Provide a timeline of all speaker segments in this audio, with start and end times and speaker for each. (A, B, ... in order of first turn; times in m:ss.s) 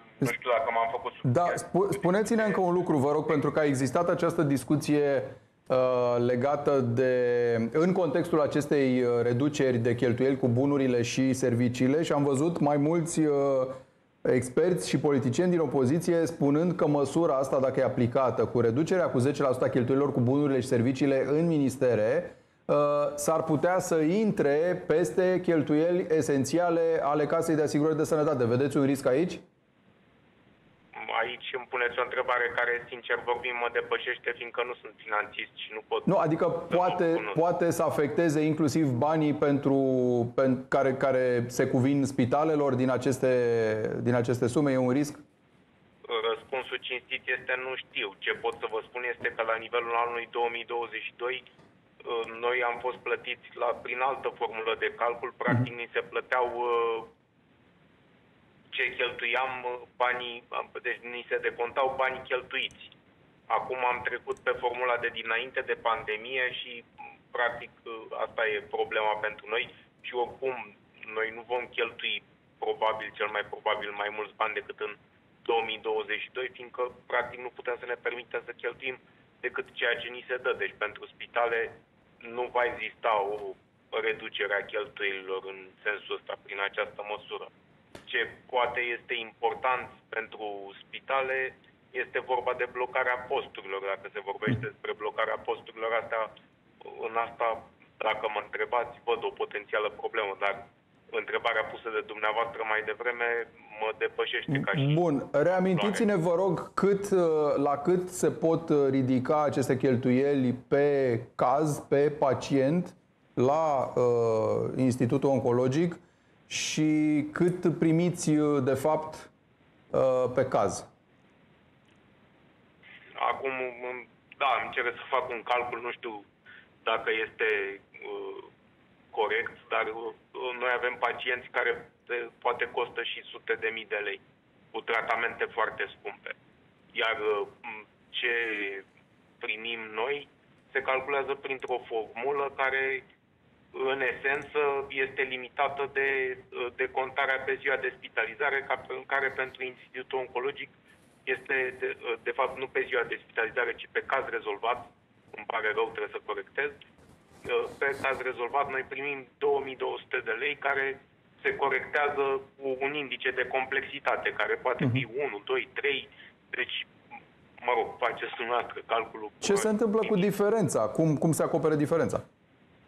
0:00.2-0:02.6 A
0:01.2-0:29.4 B
0:31.0-0:36.1 A
0:36.1-0:45.2 B
0:36.7-0:37.4 A
0:46.1-0:51.5 A
0:52.0-0:57.1 A
0:58.7-1:02.9 A
1:03.5-1:27.5 A
1:28.1-1:36.3 A
1:36.8-1:46.0 A
1:44.5-1:59.3 B
1:59.9-2:00.9 B
2:03.2-2:06.2 A
2:06.8-2:08.5 A
2:09.1-2:14.2 A
2:14.7-2:16.4 A
2:16.9-2:18.8 A
2:19.4-2:23.0 A
2:23.7-2:30.7 A
2:31.3-2:36.8 A
2:37.4-2:46.9 A
2:47.6-2:50.2 A
2:49.4-2:52.2 B